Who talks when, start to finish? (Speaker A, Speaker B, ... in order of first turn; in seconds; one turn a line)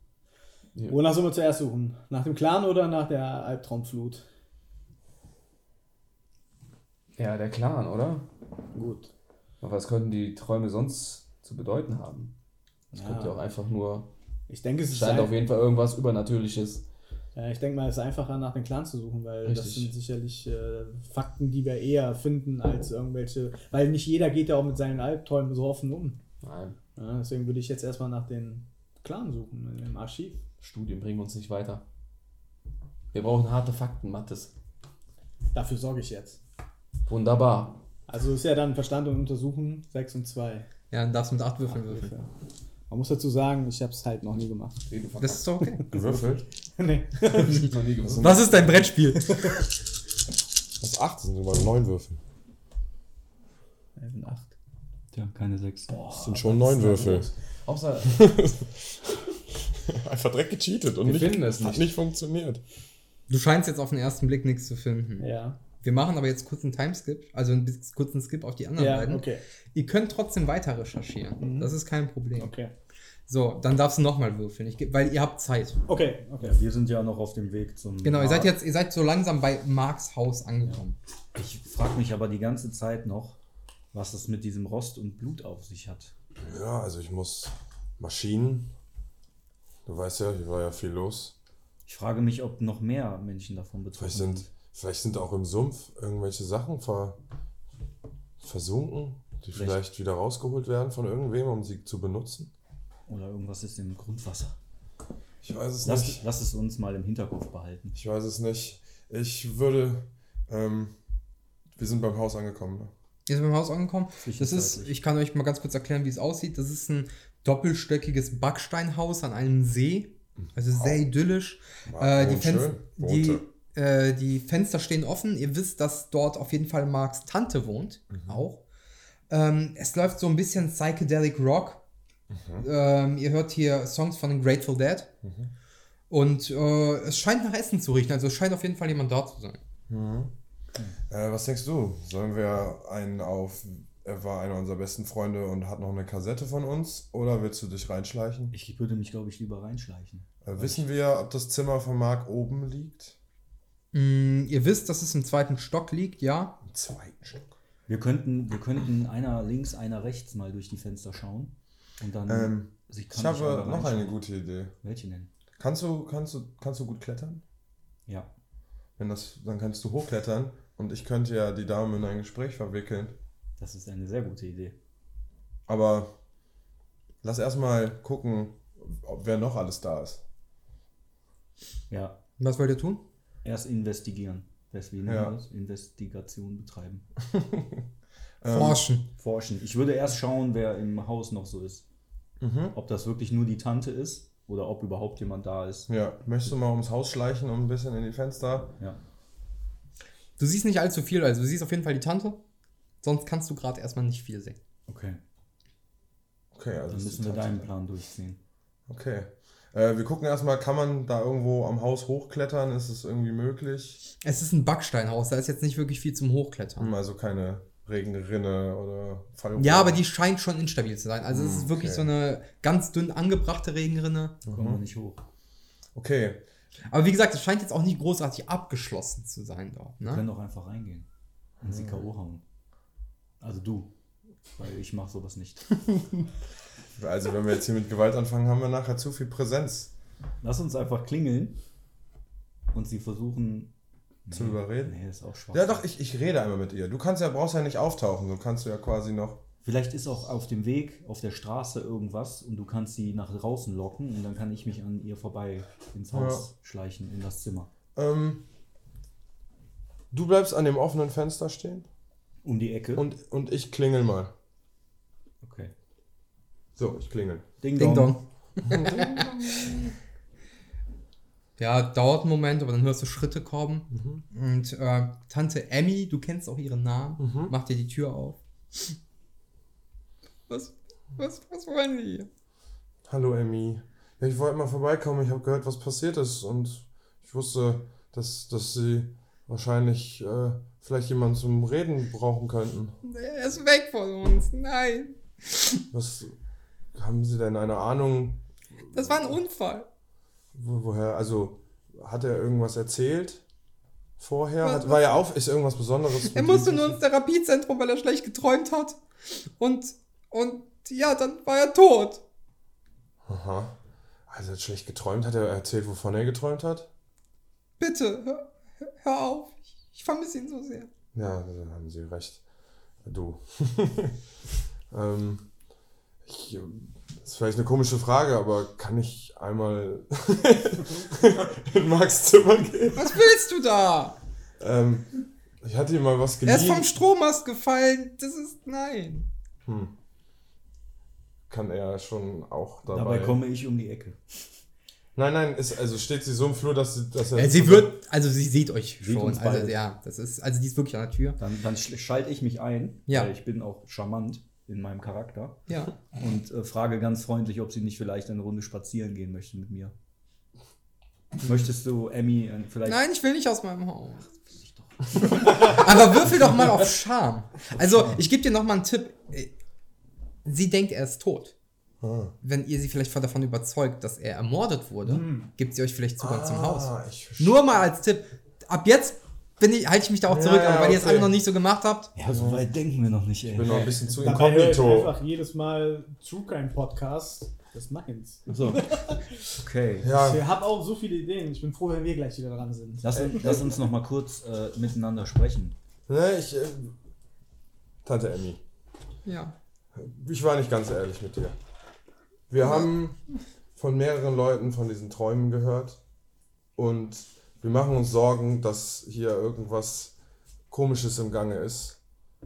Speaker A: 0.9-4.2
Speaker B: 7.2-8.2
Speaker A: 8.7-9.1
Speaker B: 9.6-12.3
Speaker A: 12.9-13.4
Speaker B: 12.9-14.1
Speaker A: 14.5-15.3
Speaker B: 14.9-16.9
Speaker A: 17.3-26.2
Speaker B: 19.4-19.9
Speaker B: 26.4-26.8
Speaker A: 27.0-30.4
Speaker B: 30.6-31.8
Speaker B: 33.1-34.5
Speaker A: 35.5-36.4
Speaker B: 37.1-37.8
Speaker A: 38.1-40.7
Speaker C: 40.9-42.1
Speaker A: 41.7-42.3
Speaker A: 42.9-44.9
Speaker B: 44.9-45.4
Speaker C: 45.2-45.9
Speaker D: 45.9-46.4
Speaker A: 45.9-46.2
Speaker A: 46.8-47.7
Speaker B: 47.2-48.9
Speaker D: 48.1-48.4
Speaker C: 48.2-49.5
Speaker A: 49.2-49.5
Speaker D: 50.8-52.2
Speaker A: 54.0-54.5
Speaker E: 55.1-56.1
Speaker B: 55.9-58.3
Speaker D: 56.1-57.3
Speaker D: 58.0-59.0
Speaker D: 59.7-62.6
Speaker B: 61.0-61.9
Speaker C: 63.3-72.5
Speaker A: 65.2-65.6
Speaker A: 68.8-69.4
Speaker A: 71.4-71.7
Speaker A: 72.4-72.7
Speaker C: 73.3-75.8
Speaker A: 75.9-76.6
Speaker E: 76.4-78.5
Speaker C: 78.0-81.0
Speaker E: 81.3-83.4
Speaker E: 83.9-86.1
Speaker D: 86.4-88.7
Speaker D: 89.8-91.3
Speaker E: 91.8-94.5
Speaker D: 94.0-97.2
Speaker D: 98.4-102.5
Speaker E: 103.1-104.5
Speaker D: 105.4-106.2
Speaker E: 105.8-108.0
Speaker D: 107.9-110.9
Speaker D: 111.8-112.9
Speaker C: 113.3-128.6
Speaker E: 114.2-115.0
Speaker D: 120.8-121.0
Speaker D: 121.9-123.4
Speaker D: 128.1-128.4
Speaker C: 129.3-131.8
Speaker D: 132.3-132.7
Speaker C: 132.6-135.1
Speaker D: 135.2-135.5
Speaker C: 136.1-139.6
Speaker D: 139.9-140.3
Speaker D: 141.1-148.5
Speaker E: 148.5-150.8
Speaker D: 150.4-153.1
Speaker C: 153.9-156.6
Speaker D: 156.6-157.5
Speaker E: 157.9-164.2
Speaker D: 162.3-164.7
Speaker E: 164.8-165.3
Speaker D: 165.6-167.4
Speaker D: 169.0-173.2
Speaker E: 173.6-174.8
Speaker D: 175.7-176.1
Speaker D: 177.2-180.2
Speaker E: 181.9-182.2
Speaker C: 182.4-183.0
Speaker E: 183.4-187.0
Speaker D: 185.0-185.3
Speaker D: 187.3-187.8
Speaker D: 188.4-188.8
Speaker C: 188.5-189.1
Speaker E: 189.2-191.8
Speaker D: 192.4-192.7
Speaker E: 192.7-195.9
Speaker D: 195.9-198.7
Speaker C: 200.4-202.4
Speaker C: 203.0-204.6
Speaker E: 204.9-205.2
Speaker D: 206.5-207.7
Speaker E: 206.9-208.4
Speaker D: 208.9-214.0
Speaker C: 214.2-216.9
Speaker D: 216.8-220.0
Speaker C: 219.6-224.4
Speaker D: 221.3-222.1
Speaker D: 224.4-224.8
Speaker E: 224.5-225.2
Speaker D: 225.9-226.4
Speaker C: 226.9-230.2
Speaker E: 230.0-231.1
Speaker E: 231.6-232.4
Speaker D: 231.6-232.0
Speaker E: 233.4-233.9
Speaker E: 234.6-235.8
Speaker D: 237.0-239.9
Speaker E: 240.4-241.6
Speaker E: 242.7-243.7
Speaker E: 244.2-245.8
Speaker D: 244.3-245.0
Speaker D: 245.5-249.4
Speaker E: 249.6-257.7
Speaker D: 256.1-256.5
Speaker D: 257.9-258.4
Speaker D: 260.1-261.9
Speaker E: 262.4-263.1
Speaker D: 262.9-264.3
Speaker E: 265.4-265.7
Speaker D: 266.8-267.4
Speaker E: 267.6-268.2
Speaker C: 267.7-269.3
Speaker D: 268.7-269.8
Speaker C: 271.6-278.4
Speaker D: 273.9-274.2
Speaker D: 277.2-277.5
Speaker C: 280.5-282.3
Speaker D: 283.1-292.9
Speaker C: 293.0-295.8
Speaker D: 295.9-296.3
Speaker D: 296.9-298.4
Speaker C: 298.9-299.9
Speaker D: 298.9-299.3
Speaker D: 300.5-303.4
Speaker D: 304.2-307.0
Speaker C: 304.6-305.0
Speaker C: 306.2-309.0
Speaker C: 309.6-312.2
Speaker D: 313.2-313.7
Speaker D: 314.3-316.9
Speaker C: 317.8-320.9
Speaker D: 321.1-322.4
Speaker D: 323.0-324.2
Speaker D: 324.9-325.5
Speaker D: 326.2-333.2
Speaker C: 332.9-334.1
Speaker D: 334.6-335.1
Speaker D: 335.6-336.9
Speaker C: 336.4-339.3
Speaker D: 339.6-339.9
Speaker D: 341.5-343.4
Speaker E: 342.9-344.2
Speaker D: 345.1-347.9
Speaker C: 347.3-351.4
Speaker E: 349.0-349.8
Speaker E: 351.4-359.9
Speaker C: 355.7-355.9
Speaker E: 361.4-363.0
Speaker C: 362.8-364.4
Speaker E: 364.5-365.8
Speaker C: 365.1-369.5
Speaker E: 367.8-368.2
Speaker C: 370.4-371.5
Speaker D: 372.0-372.3
Speaker C: 372.4-382.1
Speaker A: 375.0-375.5
Speaker D: 376.2-377.7
Speaker D: 380.3-381.4
Speaker E: 382.1-384.2
Speaker D: 382.3-382.6
Speaker D: 383.5-385.1
Speaker A: 384.2-389.2
Speaker B: 388.5-388.8
Speaker E: 389.6-390.1
Speaker D: 390.0-390.4
Speaker A: 390.1-393.3
Speaker E: 393.0-395.8
Speaker D: 393.2-393.6
Speaker D: 396.1-396.9
Speaker D: 398.0-398.6
Speaker C: 399.2-399.5
Speaker D: 399.9-401.6
Speaker D: 402.5-403.2
Speaker D: 403.8-406.0
Speaker D: 406.8-410.1
Speaker D: 410.7-412.0